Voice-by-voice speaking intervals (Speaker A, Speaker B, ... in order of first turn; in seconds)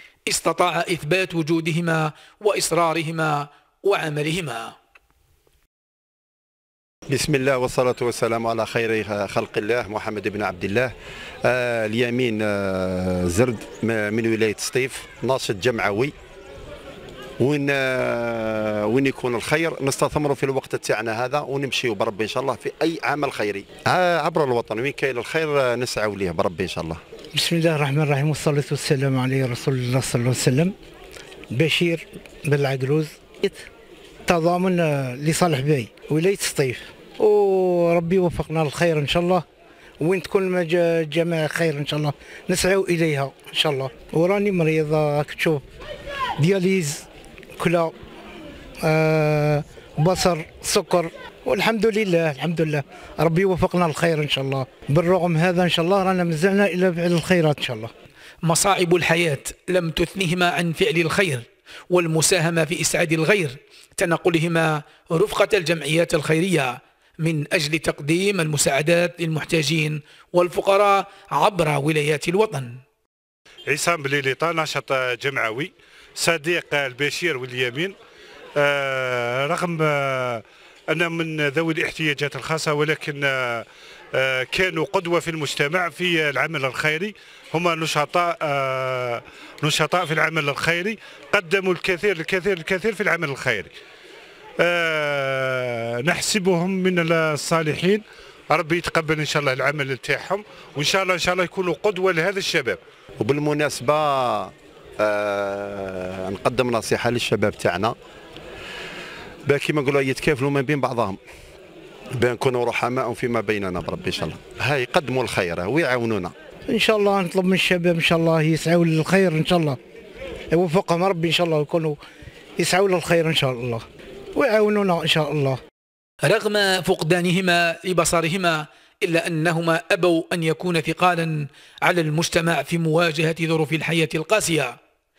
Speaker A: 0.3-4.7, 58.4-72.8, 126.2-134.8
Speaker B: 7.1-10.9, 11.4-16.1, 17.4-27.0, 103.2-107.9, 109.5-111.2, 112.2-116.3
Speaker C: 27.3-30.7, 31.5-33.6, 34.2-39.4, 40.0-45.6, 46.4-47.0, 47.6-47.9, 48.8-57.9, 116.7-119.8, 120.5-122.0, 122.6-123.8, 124.3-125.6
Speaker D: 73.7-77.9, 78.6-93.7, 94.6-102.8